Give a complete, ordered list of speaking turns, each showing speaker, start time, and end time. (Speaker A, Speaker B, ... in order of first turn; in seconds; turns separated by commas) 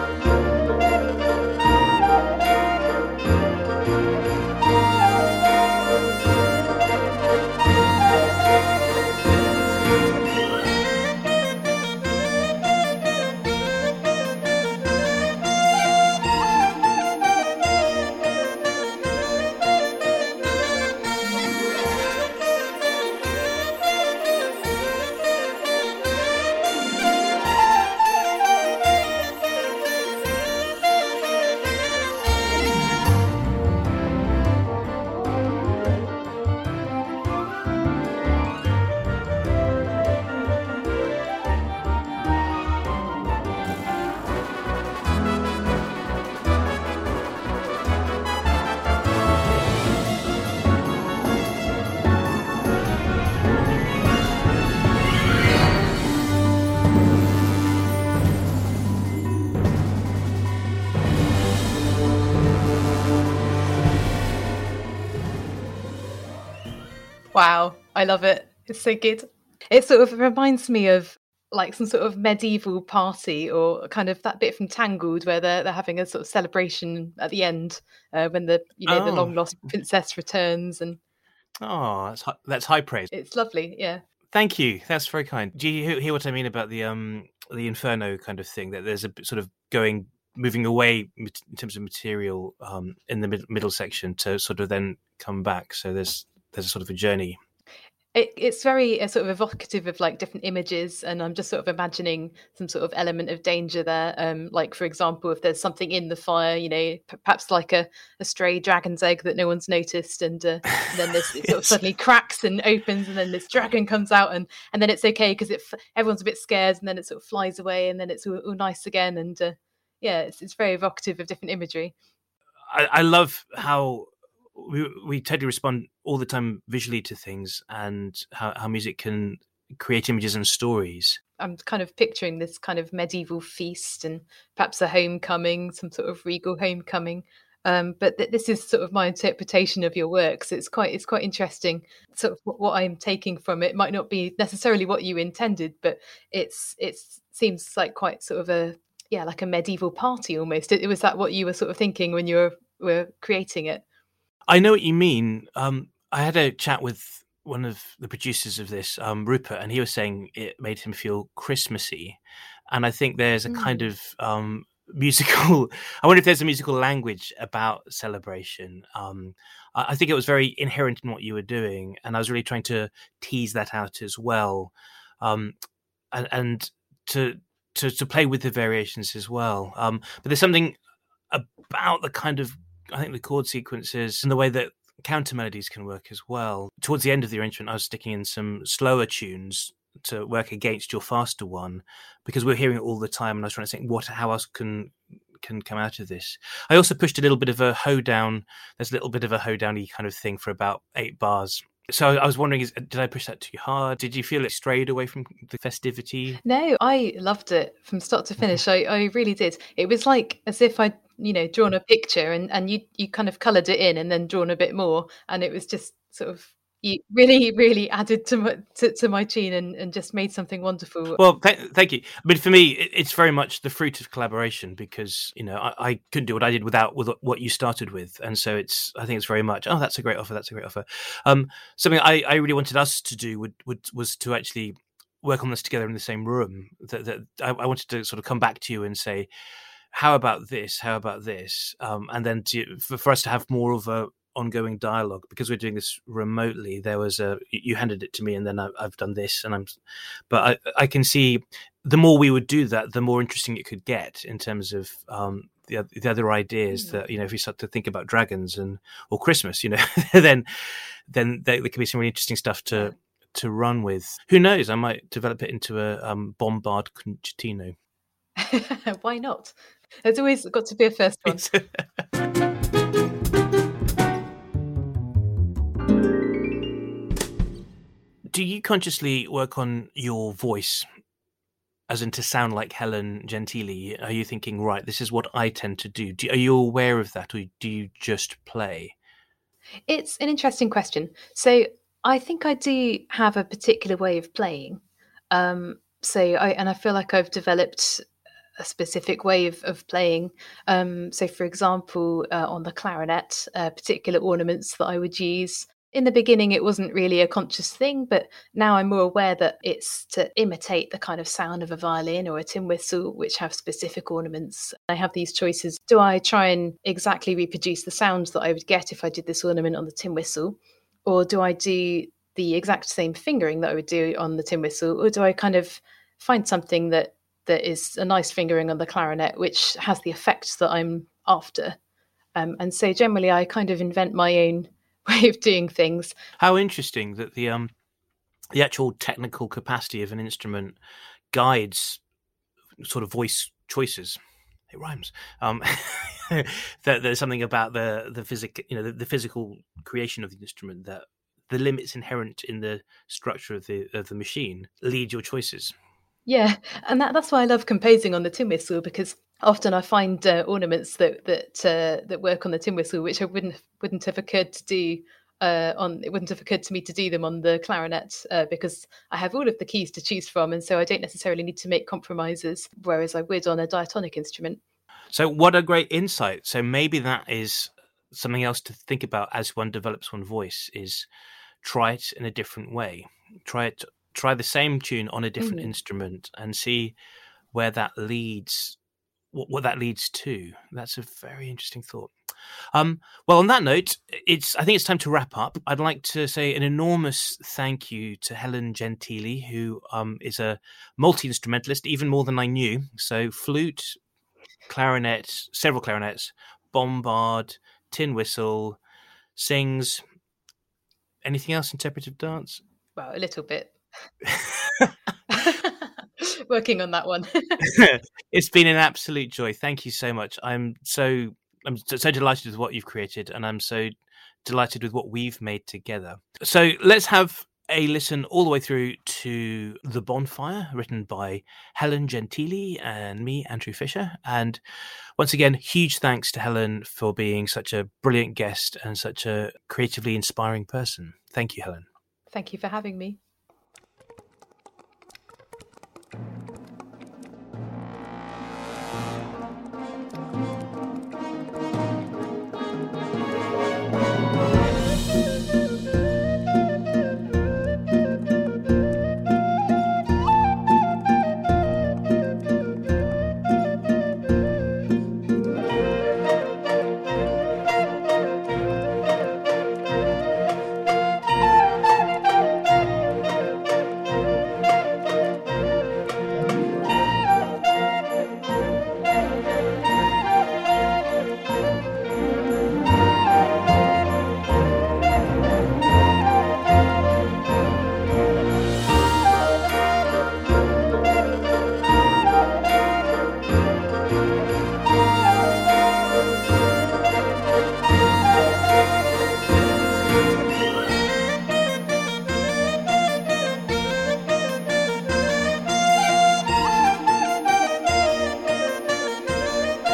Speaker A: 67.3-81.0, Speaker B: 78.9-79.4, Speaker B: 81.6-83.1, Speaker A: 83.1-84.0, Speaker B: 84.3-97.4, Speaker A: 98.1-121.9, Speaker B: 122.7-131.2, Speaker A: 131.4-153.8, Speaker B: 154.5-162.2, Speaker B: 162.7-175.6, Speaker A: 163.5-163.9, Speaker B: 176.1-180.8, Speaker B: 181.3-206.4, Speaker A: 206.4-221.2, Speaker B: 221.2-239.3, Speaker B: 239.9-249.8, Speaker B: 250.3-260.5, Speaker A: 256.7-257.0, Speaker B: 261.1-267.8, Speaker A: 268.4-271.5, Speaker B: 271.3-271.8, Speaker B: 278.3-280.9, Speaker B: 281.9-288.9, Speaker A: 289.9-298.0, Speaker A: 298.6-331.8, Speaker A: 332.4-336.1, Speaker B: 336.4-337.7, Speaker B: 338.5-340.8, Speaker B: 341.3-342.0, Speaker B: 342.8-344.2, Speaker B: 344.7-355.8, Speaker A: 356.3-374.6, Speaker B: 375.1-381.1, Speaker B: 381.6-386.9, Speaker A: 385.4-385.7, Speaker B: 387.5-388.8, Speaker B: 389.3-392.1, Speaker B: 392.7-404.0, Speaker B: 404.7-408.8, Speaker B: 409.4-410.0, Speaker B: 411.2-412.6, Speaker A: 413.0-413.7, Speaker B: 414.3-414.9, Speaker A: 415.3-417.6, Speaker B: 417.6-423.9, Speaker B: 424.4-434.6, Speaker B: 435.2-441.9, Speaker A: 442.3-443.2